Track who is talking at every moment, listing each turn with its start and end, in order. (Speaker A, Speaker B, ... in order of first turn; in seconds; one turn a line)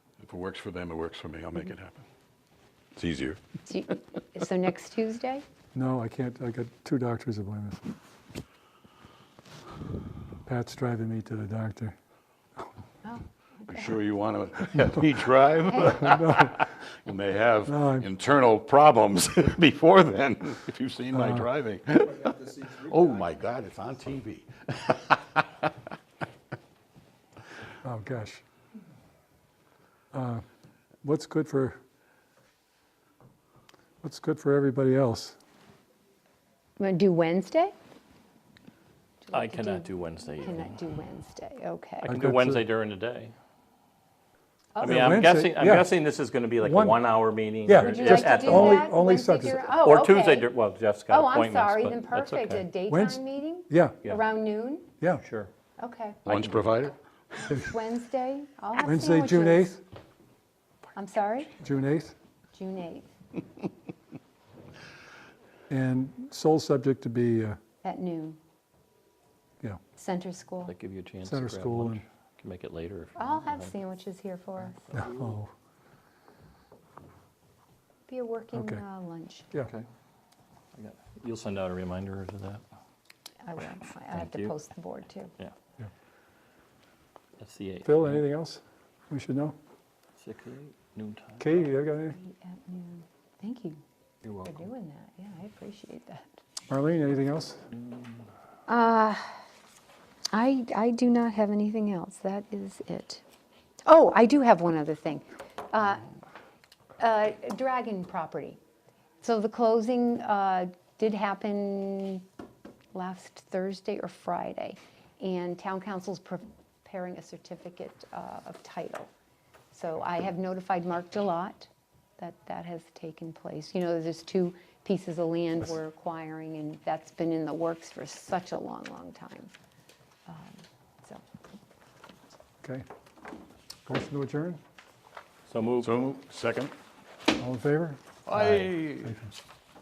Speaker A: 0.2-2.0
Speaker A: 3.0-3.4
Speaker B: 3.7-5.4
Speaker C: 5.7-7.8
Speaker C: 10.4-11.9
Speaker B: 13.0-14.0
Speaker A: 13.7-25.7
Speaker B: 15.7-16.0
Speaker C: 15.8-16.6
Speaker C: 17.7-18.1
Speaker C: 21.1-21.5
Speaker C: 27.8-28.4
Speaker C: 30.1-30.4
Speaker C: 31.0-31.8
Speaker C: 34.0-35.4
Speaker B: 36.8-37.7
Speaker B: 39.2-42.1
Speaker D: 39.3-40.7
Speaker D: 42.0-43.3
Speaker C: 42.1-42.6
Speaker B: 44.7-45.2
Speaker D: 44.8-48.9
Speaker C: 44.8-45.9
Speaker C: 46.6-47.0
Speaker C: 47.6-49.7
Speaker B: 47.7-50.5
Speaker D: 49.7-52.6
Speaker B: 51.1-54.9
Speaker C: 52.9-54.0
Speaker D: 55.2-55.5
Speaker B: 55.8-56.2
Speaker A: 56.2-57.0
Speaker D: 56.3-56.6
Speaker B: 57.4-59.8
Speaker C: 58.8-59.8
Speaker B: 60.9-61.5
Speaker C: 61.6-62.1
Speaker B: 62.5-63.1
Speaker C: 65.7-67.6
Speaker B: 67.8-68.4
Speaker B: 69.9-70.7
Speaker D: 70.6-73.7
Speaker C: 71.2-72.0
Speaker B: 73.2-74.9
Speaker D: 74.6-75.3
Speaker C: 74.9-75.5
Speaker B: 78.1-79.5
Speaker C: 78.5-78.8
Speaker D: 80.7-82.6
Speaker B: 83.4-85.3
Speaker D: 84.1-84.5
Speaker D: 87.4-88.2
Speaker C: 87.8-89.5
Speaker D: 90.2-91.5
Speaker C: 91.4-92.2
Speaker B: 92.1-93.8
Speaker D: 94.2-94.5
Speaker B: 94.4-96.3
Speaker C: 96.7-97.6
Speaker D: 97.8-98.2
Speaker B: 98.7-99.4
Speaker B: 100.3-103.2
Speaker B: 103.8-106.1
Speaker B: 107.0-108.6
Speaker B: 109.2-112.2
Speaker B: 112.9-119.1
Speaker B: 119.7-129.5
Speaker B: 130.3-131.2
Speaker C: 133.8-134.6
Speaker D: 135.5-135.9
Speaker A: 135.8-136.7
Speaker C: 137.4-138.0
Speaker A: 138.3-139.2
Speaker D: 138.3-138.7
Speaker C: 139.0-139.3